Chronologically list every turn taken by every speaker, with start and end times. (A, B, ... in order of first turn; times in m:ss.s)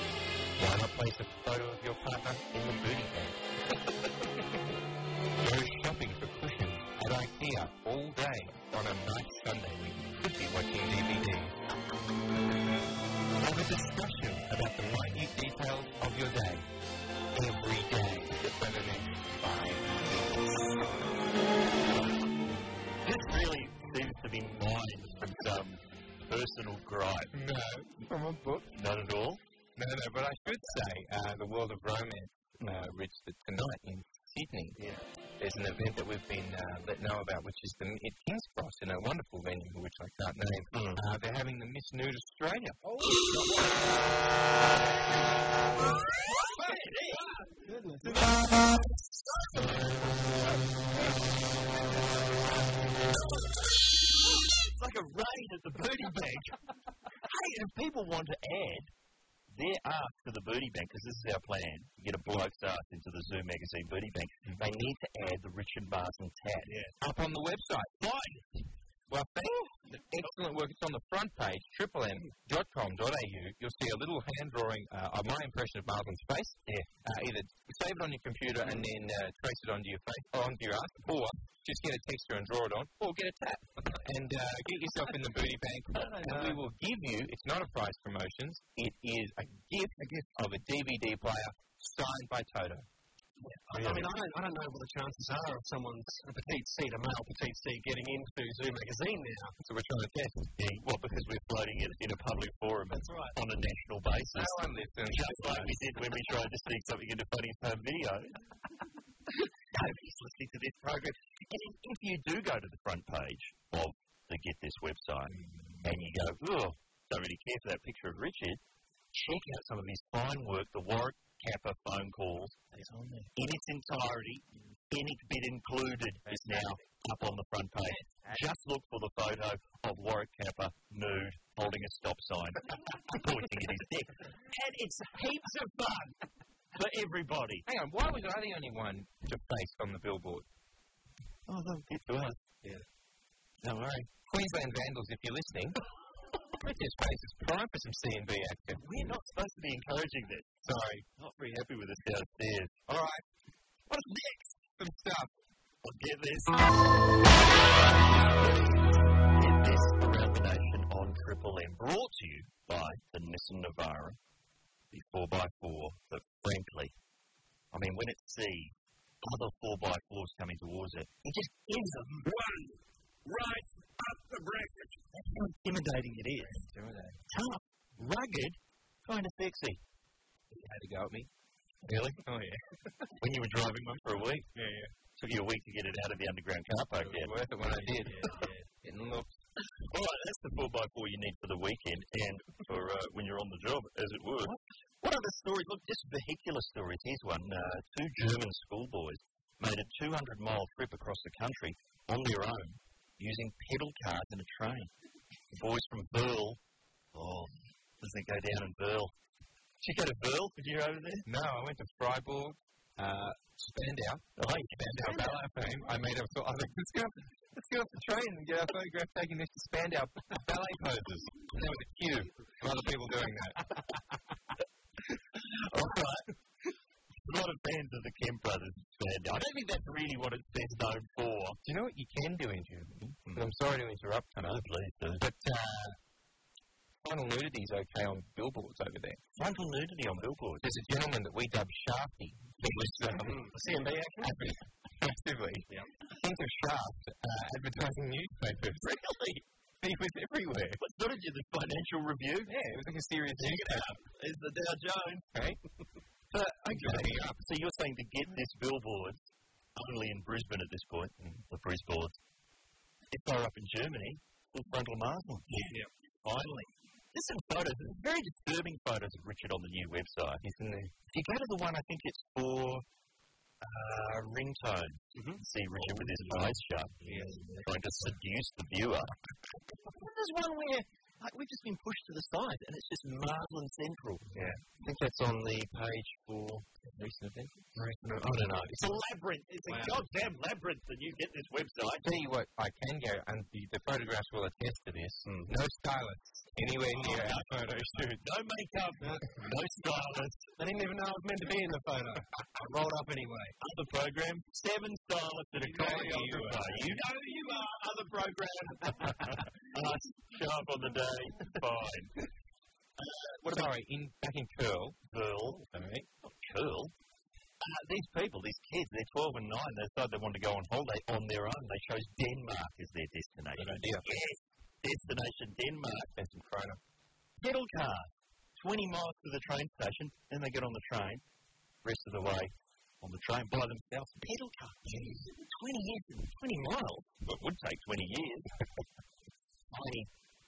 0:00.6-0:04.6 A
0:05.4-0:11.6 A
0:13.4-0:16.6 A
0:17.3-0:20.8 A
0:23.0-0:27.3 B
0:27.3-0:28.7 A
0:28.7-0:29.4 B
0:29.8-0:34.8 A
0:35.4-0:42.8 A
0:40.7-0:41.0 B
0:43.3-0:43.7 B
0:46.0-0:47.3 B
0:48.1-0:48.4 B
0:49.0-0:49.9 B
0:53.1-0:56.5 B
0:57.2-0:58.9 B
0:59.5-1:06.8 B
1:07.0-1:07.9 A
1:08.0-1:08.5 B
1:09.1-1:32.8 A
1:33.7-1:39.5 C
1:33.8-1:34.0 B
1:39.6-1:40.5 A
1:40.6-1:48.3 B
1:42.9-1:43.3 C
1:44.3-1:45.8 A
1:49.7-1:58.6 B
1:55.3-1:55.8 A
1:59.1-2:02.7 B
2:02.8-2:03.3 A
2:03.3-2:16.1 B
2:06.2-2:06.7 A
2:07.9-2:08.4 A
2:16.7-2:17.6 B
2:17.6-2:20.4 A
2:21.5-2:22.4 B
2:23.6-2:24.1 B
2:24.2-2:25.8 A
2:26.6-2:28.8 A
2:28.8-2:30.6 B
2:30.6-2:31.0 A
2:31.2-2:32.8 B
2:32.9-2:33.2 A
2:33.9-2:34.6 B
2:34.8-2:35.3 A
2:35.8-2:36.8 B
2:37.5-2:44.2 B
2:44.9-2:46.9 B
2:47.7-2:48.7 B
2:49.2-2:52.3 B
2:55.2-2:56.6 B
2:56.4-2:57.2 A
2:57.3-2:59.8 B
3:00.5-3:01.3 A
3:01.8-3:02.2 B
3:02.2-3:03.1 A
3:03.2-3:04.5 B
3:04.5-3:04.9 A
3:05.2-3:07.3 B
3:07.0-3:09.4 A
3:08.1-3:08.5 C
3:09.9-3:24.9 B
3:25.5-3:26.6 B
3:27.1-3:29.1 B
3:29.8-3:31.2 B
3:31.2-3:43.6 A
3:34.4-3:35.2 B
3:45.4-3:46.3 B
3:47.2-3:51.6 B
3:51.6-3:54.4 A
3:54.3-3:55.2 B
3:55.2-3:56.0 A
3:57.0-3:59.2 A
3:59.3-4:00.7 B
4:00.6-4:03.4 A
4:03.2-4:04.6 C
4:04.2-4:05.6 A
4:06.2-4:08.8 A
4:08.8-4:09.4 B
4:09.8-4:10.8 A
4:10.8-4:12.5 B
4:12.4-4:14.0 A
4:13.4-4:15.3 B
4:15.3-4:15.6 A
4:16.3-4:17.4 A
4:16.4-4:19.2 B
4:19.8-4:22.2 B
4:23.1-4:25.5 B
4:26.2-4:30.4 B
4:30.4-4:30.9 A
4:31.1-4:32.8 B
4:33.6-4:39.1 B
4:36.0-4:36.4 A
4:37.0-4:37.6 A
4:39.8-4:46.6 B
4:46.9-4:47.7 A
4:47.7-4:52.0 B
4:49.7-4:50.0 C
4:52.0-4:58.1 A
4:56.9-5:00.5 B
5:00.6-5:03.5 C
5:03.6-5:12.1 B
5:05.6-5:06.9 A
5:13.0-5:13.7 B
5:13.4-5:15.0 A
5:15.1-5:15.6 B
5:15.6-5:16.1 A
5:16.2-5:16.9 B
5:17.6-5:26.1 B
5:23.6-5:24.1 A
5:26.2-5:26.8 A
5:27.4-5:31.2 B
5:31.8-5:38.5 B
5:39.7-5:40.1 B